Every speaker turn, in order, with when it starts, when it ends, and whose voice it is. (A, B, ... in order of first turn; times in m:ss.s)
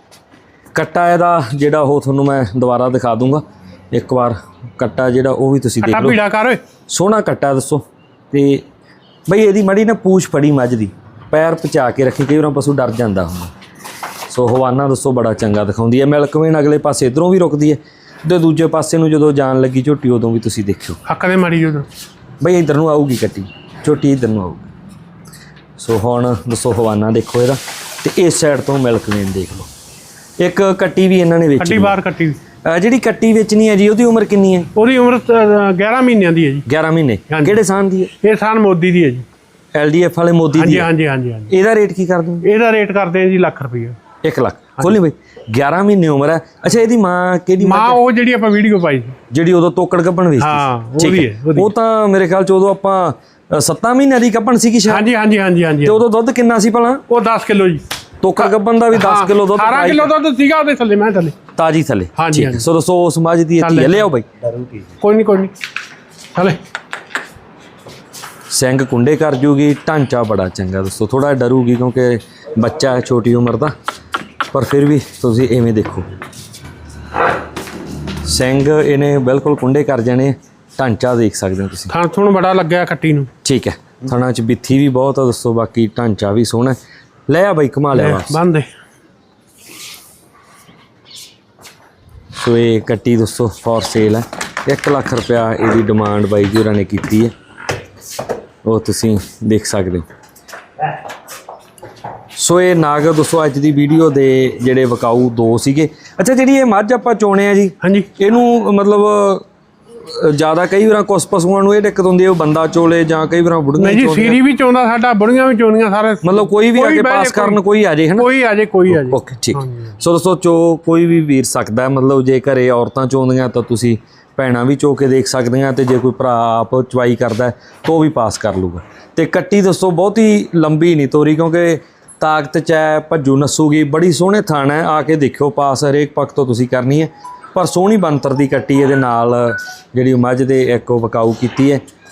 0:00.7-0:06.2 A
0:05.8-0:06.6 B
0:06.9-0:08.6 A
0:09.3-0:13.5 A
0:14.3-0:21.0 A
0:21.0-0:21.9 B
0:22.4-0:24.7 A
0:25.8-0:29.7 A
0:30.4-0:32.0 A
0:31.6-0:32.4 B
0:32.6-0:34.7 A
0:34.8-0:36.7 B
0:36.7-0:38.1 A
0:37.3-0:37.6 B
0:38.2-0:39.3 B
0:39.8-0:40.9 A
0:40.5-0:41.5 B
0:41.5-0:42.5 A
0:42.4-0:44.0 B
0:44.2-0:48.0 A
0:47.6-0:49.2 B
0:49.3-0:55.1 A
0:50.4-0:51.7 B
0:54.9-0:56.0 B
0:55.8-0:57.0 A
0:57.1-0:57.8 B
0:58.2-1:00.1 A
0:58.4-1:01.4 B
1:01.6-1:04.3 A
1:02.2-1:02.7 B
1:03.6-1:04.1 B
1:05.0-1:05.5 B
1:08.5-1:13.7 A
1:14.5-1:16.1 A
1:18.2-1:21.9 A
1:21.9-1:23.3 B
1:23.4-1:26.8 A
1:27.3-1:28.4 A
1:27.9-1:28.7 B
1:32.4-1:37.3 A
1:38.6-1:40.0 A
1:42.4-1:49.4 A
1:47.8-1:48.1 B
1:50.0-1:54.4 A
1:53.8-1:57.6 B
1:56.2-1:58.3 A
1:58.2-1:59.9 B
1:58.9-2:21.8 A